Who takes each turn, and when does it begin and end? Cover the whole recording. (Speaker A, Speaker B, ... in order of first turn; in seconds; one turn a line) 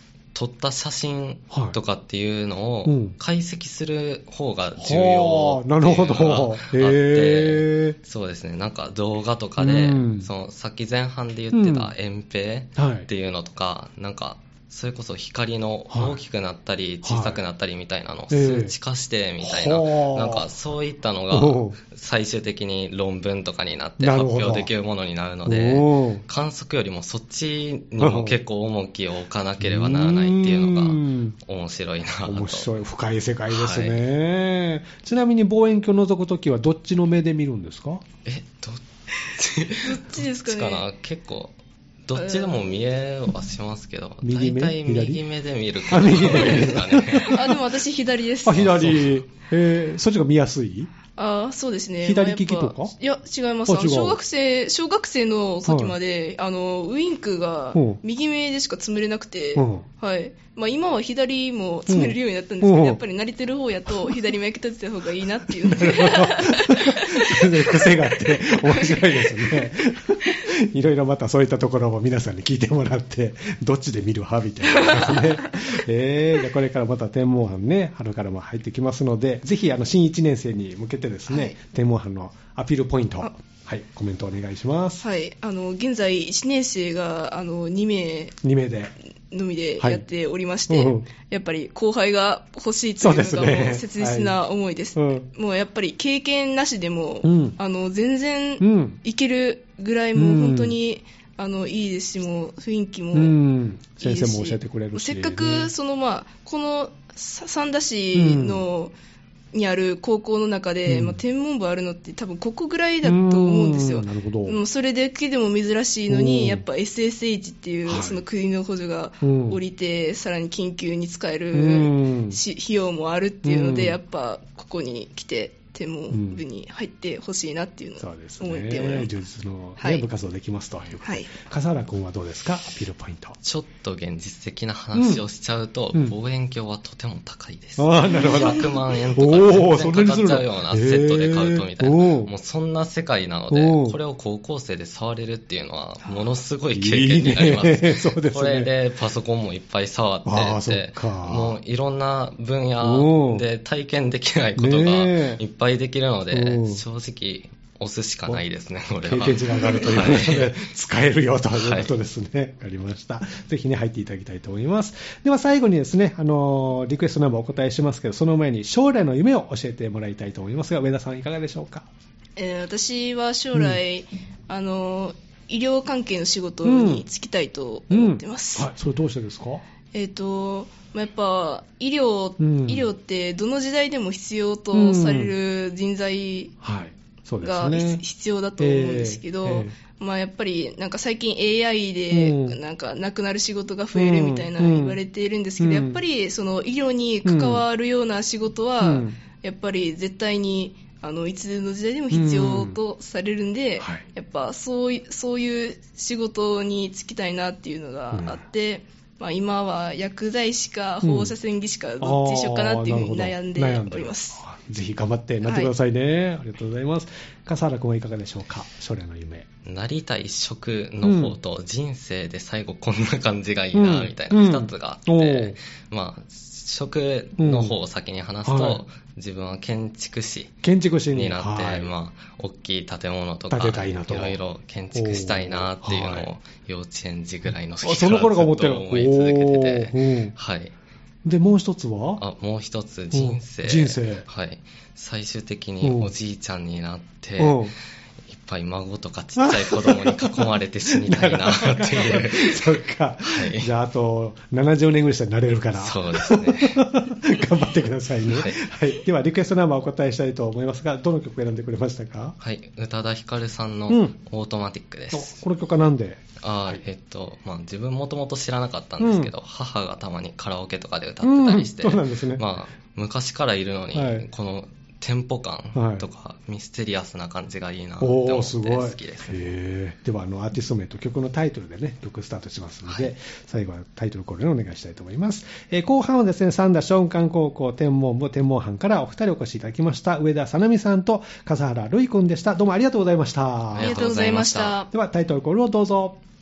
Speaker A: 0.3-32.7
Speaker B: 1.5-1.8
Speaker B: 2.8-3.2
Speaker B: 4.8-8.0
Speaker B: 9.6-10.3
Speaker B: 11.5-11.9
Speaker B: 12.8-13.1
Speaker B: 15.9-16.2
Speaker B: 17.0-17.4
Speaker B: 18.3-18.7
Speaker B: 19.4-20.4
Speaker B: 21.3-21.8
Speaker B: 24.0-24.7
Speaker B: 25.4-26.2
Speaker B: 28.0-28.4
Speaker B: 29.6-31.4
Speaker B: 32.2-38.0
Speaker A: 33.5-34.0
Speaker A: 38.2-47.5
Speaker C: 39.8-40.9
Speaker C: 42.1-42.6
Speaker B: 44.2-45.2
Speaker B: 45.8-47.5
Speaker C: 47.3-49.0
Speaker B: 48.4-50.9
Speaker A: 48.6-49.2
Speaker C: 51.1-69.4
Speaker B: 52.0-52.9
Speaker B: 53.7-54.2
Speaker B: 55.6-56.0
Speaker B: 57.7-58.0
Speaker B: 59.5-59.8
Speaker B: 61.9-63.0
Speaker B: 65.5-85.0
Speaker C: 81.3-81.5
Speaker C: 85.0-88.3
Speaker B: 88.4-88.9
Speaker C: 89.3-103.3
Speaker B: 89.8-90.0
Speaker B: 90.7-91.1
Speaker B: 93.0-94.3
Speaker B: 95.0-95.2
Speaker B: 97.2-97.6
Speaker B: 98.6-99.0
Speaker B: 100.2-100.8
Speaker B: 103.1-105.7
Speaker C: 104.0-108.9
Speaker B: 108.1-108.7
Speaker C: 109.5-129.1
Speaker B: 110.9-111.2
Speaker B: 113.0-114.6
Speaker B: 116.1-116.6
Speaker B: 117.8-118.2
Speaker B: 119.2-119.6
Speaker B: 121.5-122.4
Speaker B: 123.4-124.0
Speaker B: 126.1-126.4
Speaker B: 128.0-133.4
Speaker C: 129.8-130.1
Speaker C: 131.0-131.3
Speaker A: 133.4-160.5
Speaker B: 134.9-135.2
Speaker B: 137.8-142.3
Speaker B: 143.5-143.9
Speaker C: 146.0-146.3
Speaker B: 146.7-148.7
Speaker B: 150.2-151.6
Speaker B: 152.8-153.4
Speaker B: 154.6-155.4
Speaker B: 156.3-156.8
Speaker B: 159.0-171.8
Speaker A: 161.5-161.9
Speaker C: 172.3-178.7
Speaker B: 173.5-173.8
Speaker B: 176.6-177.0
Speaker B: 177.9-179.6
Speaker C: 179.9-186.5
Speaker B: 182.4-182.9
Speaker B: 184.7-185.3
Speaker B: 186.6-188.0
Speaker C: 187.4-214.4
Speaker B: 188.6-189.7
Speaker B: 192.1-192.6
Speaker B: 193.9-195.0
Speaker B: 195.6-196.0
Speaker B: 197.2-197.6
Speaker B: 198.8-199.2
Speaker B: 202.1-202.8
Speaker B: 203.8-204.1
Speaker B: 208.1-208.4
Speaker B: 211.0-211.3
Speaker B: 212.0-219.5
Speaker C: 215.4-215.7
Speaker A: 219.6-240.7
Speaker B: 221.0-221.4
Speaker B: 223.7-225.6
Speaker B: 227.4-227.7
Speaker B: 228.4-228.8
Speaker B: 230.6-231.9
Speaker B: 233.5-234.4
Speaker B: 234.9-236.3
Speaker B: 237.8-240.3
Speaker B: 241.2-242.2
Speaker A: 242.2-247.7
Speaker B: 243.1-244.2
Speaker B: 245.8-246.1
Speaker B: 247.4-247.7
Speaker A: 248.3-253.7
Speaker B: 249.4-262.4
Speaker A: 255.7-256.9
Speaker A: 258.3-258.6
Speaker A: 262.4-265.4
Speaker B: 263.9-264.2
Speaker B: 265.1-266.8
Speaker A: 266.4-279.4
Speaker B: 269.0-269.3
Speaker B: 271.2-272.4
Speaker B: 273.9-274.3
Speaker B: 275.7-276.1
Speaker B: 278.0-294.0
Speaker A: 282.9-283.1
Speaker A: 293.7-294.8
Speaker C: 293.8-294.9
Speaker B: 294.9-296.2